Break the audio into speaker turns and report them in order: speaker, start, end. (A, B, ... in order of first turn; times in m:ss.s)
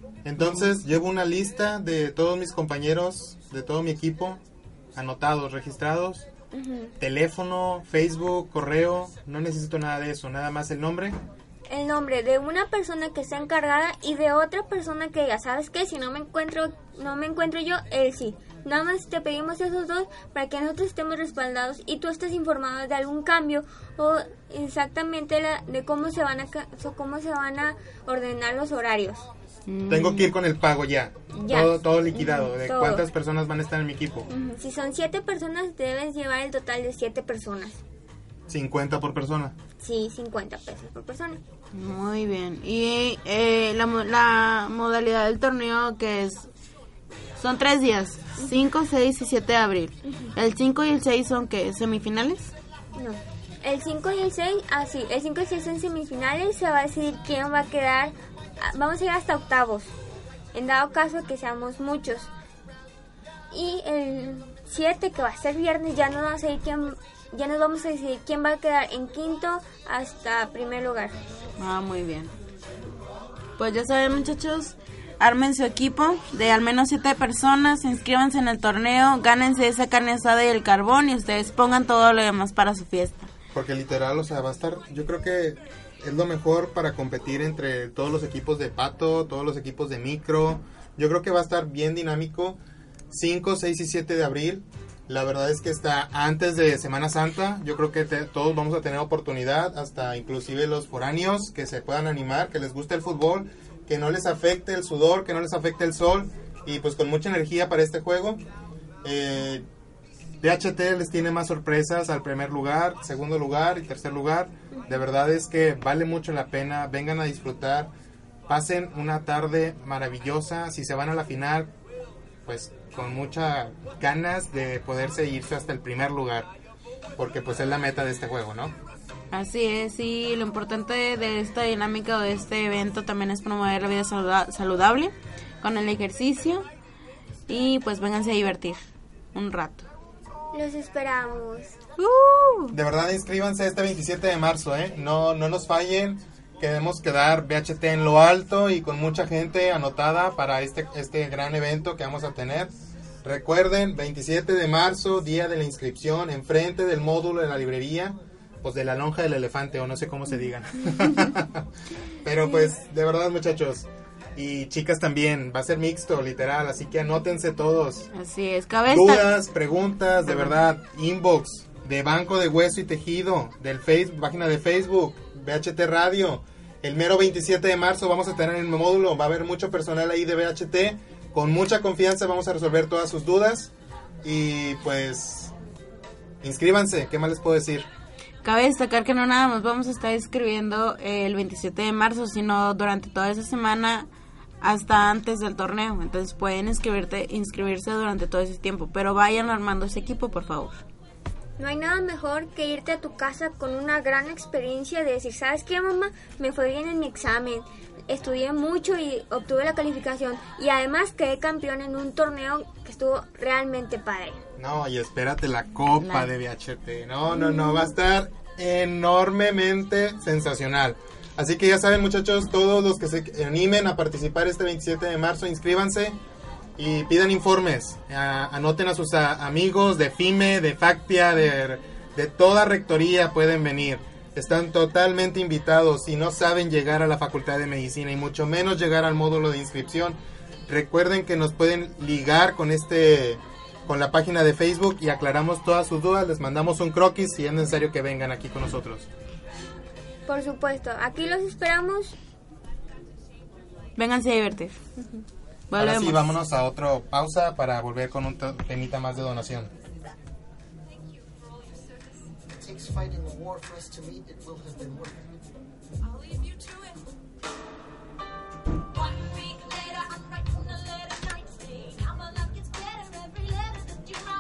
0:00.2-0:04.4 A
0:05.0-0:06.3 A
0:06.5-0:06.9 B
0:07.0-0:11.2 A
0:11.7-0:29.3 B
0:29.7-0:30.4 C
0:29.9-0:34.3 A
0:31.4-0:33.0 B
0:34.3-0:37.8 B
0:38.5-0:39.6 A
0:39.8-0:41.4 B
0:41.7-0:46.5 C
0:47.4-0:52.5 C
0:53.0-0:59.9 B
1:00.5-1:02.3 B
1:03.5-1:11.2 B
1:11.6-1:12.3 C
1:13.6-1:23.3 C
1:23.5-1:32.6 A
1:33.1-1:48.4 A
1:49.0-1:49.7 A
1:50.4-1:57.9 A
1:58.5-2:01.7 A
2:02.4-2:06.5 A
2:07.2-2:08.8 A
2:09.3-2:16.7 C
2:17.5-2:18.8 C
2:19.3-2:19.9 C
2:20.5-2:21.8 B
2:22.0-2:22.8 C
2:22.7-2:32.7 A
2:33.2-2:41.7 A
2:42.2-2:48.1 A
2:48.1-2:49.3 C
2:48.9-3:03.7 A
3:04.2-3:05.5 A
3:06.4-3:07.9 A
3:08.4-3:14.1 C
3:14.6-3:20.8 C
3:21.6-3:34.4 B
3:34.6-3:46.2 A
3:36.0-3:36.3 C
3:46.8-4:09.1 A
4:10.3-4:12.2 B
4:14.0-4:14.8 C
4:15.7-4:16.3 C
4:15.8-4:19.7 A
4:22.6-4:25.3 D